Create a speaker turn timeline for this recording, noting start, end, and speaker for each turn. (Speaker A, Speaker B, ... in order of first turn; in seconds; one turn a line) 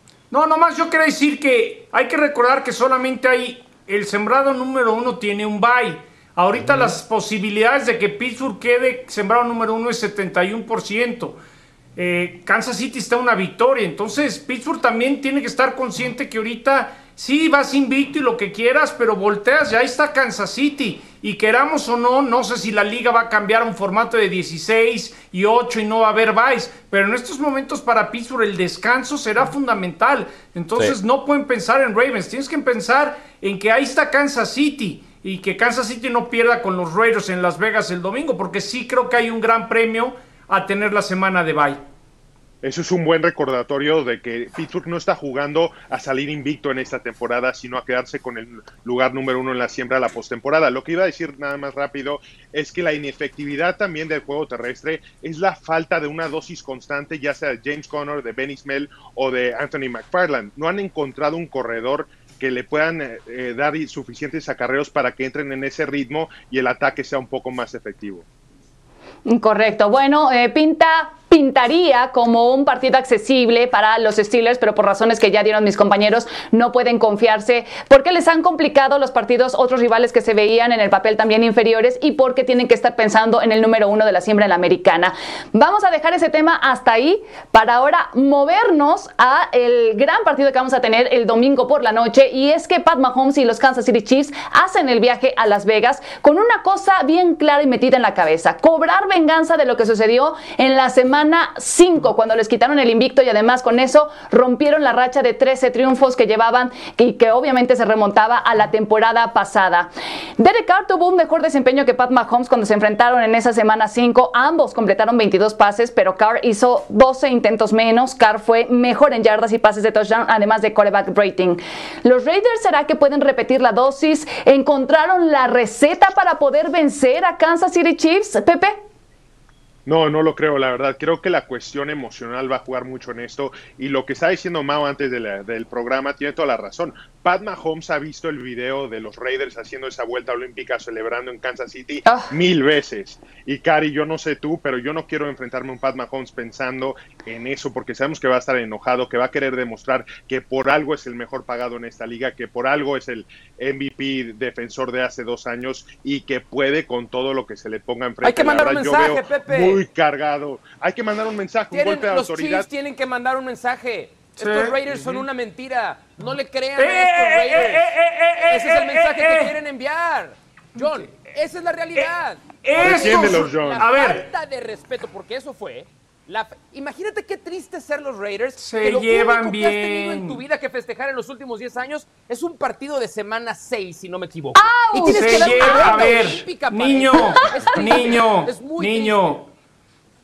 Speaker A: 0.3-11.4
Speaker A: 12.0-41.8
Speaker B: 42.6-68.2
Speaker C: 69.3-128.8
Speaker B: 129.9-162.7
Speaker D: 158.2-159.8
Speaker D: 161.7-167.9
Speaker A: 164.4-165.3
Speaker A: 166.8-169.6
Speaker D: 168.4-189.4
Speaker A: 170.8-171.1
Speaker A: 172.6-174.2
Speaker B: 172.8-173.9
Speaker A: 178.6-180.4
Speaker C: 184.6-186.2
Speaker A: 185.0-189.5